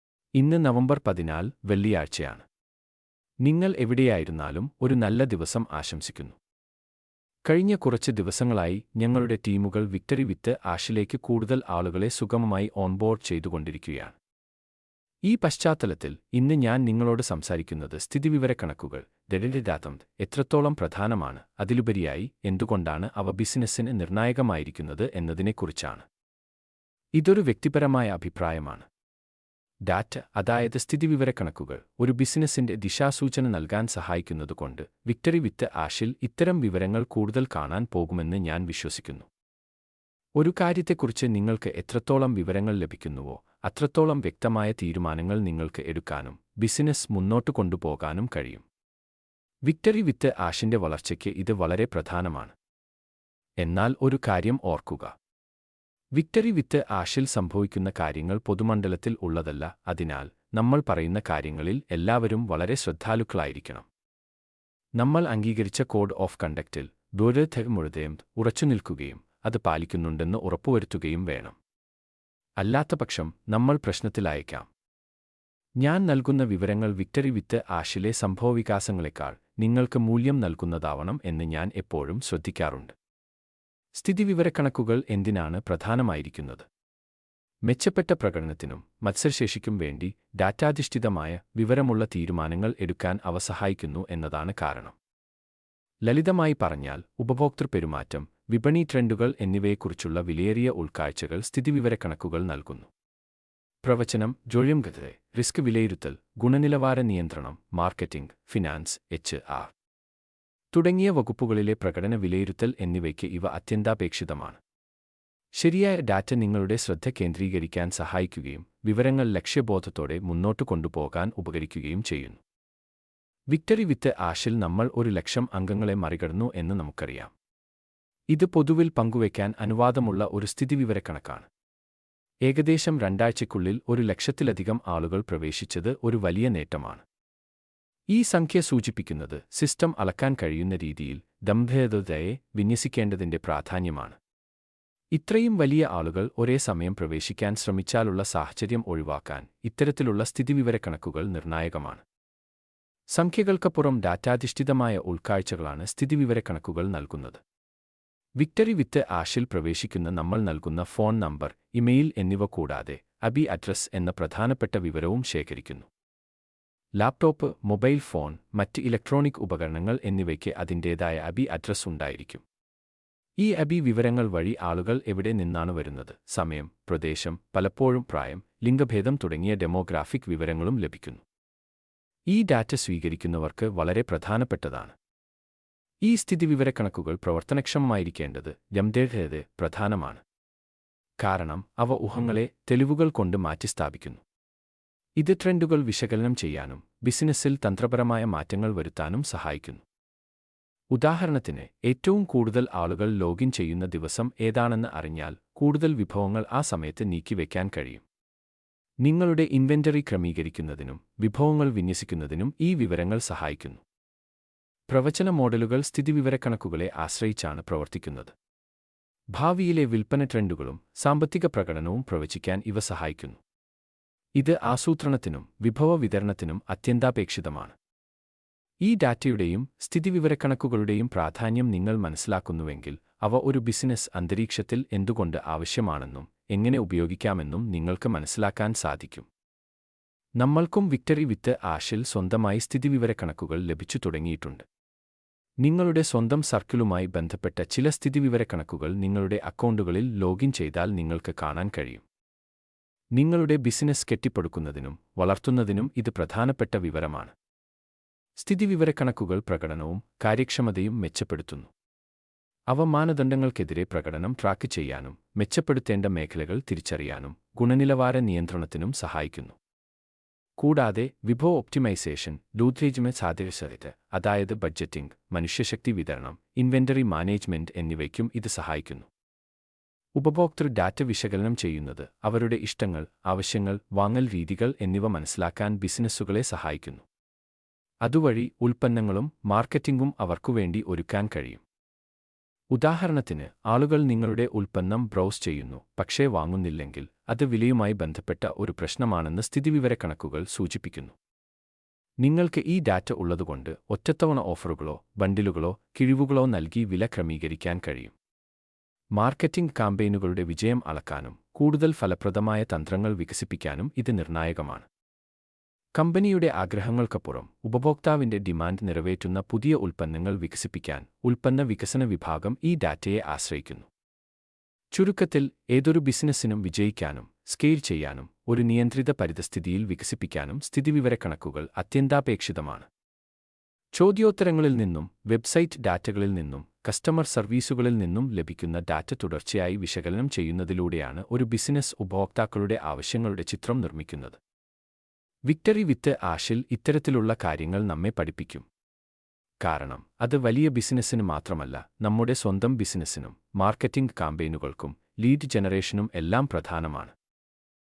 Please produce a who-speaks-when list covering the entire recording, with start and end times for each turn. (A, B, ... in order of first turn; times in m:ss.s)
0:00.4-0:02.4 A
0:03.4-0:06.4 A
0:07.5-0:14.2 A
0:15.3-0:26.1 A
0:27.2-0:28.9 A
0:29.9-0:39.3 A
0:40.4-0:48.6 A
0:49.7-0:52.6 A
0:53.6-0:55.1 A
0:56.2-1:03.9 A
1:05.0-1:11.6 A
1:12.6-1:14.7 A
1:15.8-1:22.9 A
1:24.0-1:26.7 A
1:27.7-1:35.0 A
1:36.1-1:42.9 A
1:43.8-1:49.7 A
1:50.7-1:54.6 A
1:55.5-2:02.4 A
2:03.5-2:07.3 A
2:08.3-2:11.5 A
2:12.5-2:17.0 A
2:18.1-2:24.2 A
2:25.1-2:32.0 A
2:33.2-2:37.4 A
2:38.4-2:45.9 A
2:47.0-2:52.4 A
2:53.4-3:01.2 A
3:02.3-3:04.9 A
3:06.0-3:10.2 A
3:11.2-3:14.2 A
3:15.2-3:19.8 A
3:20.9-3:28.0 A
3:29.0-3:33.8 A
3:34.9-3:38.3 A
3:39.3-3:43.4 A
3:44.4-3:47.8 A
3:48.8-3:59.3 A
4:00.4-4:04.6 A
4:05.6-4:12.0 A
4:13.2-4:17.3 A
4:18.4-4:21.7 A
4:22.7-4:29.6 A
4:30.6-4:39.1 A
4:40.2-4:47.0 A
4:48.0-4:51.6 A
4:52.7-5:01.2 A
5:02.2-5:08.1 A
5:09.2-5:14.9 A
5:16.0-5:23.9 A
5:24.9-5:32.9 A
5:33.9-5:44.4 A
5:45.5-5:48.6 A
5:49.6-5:57.1 A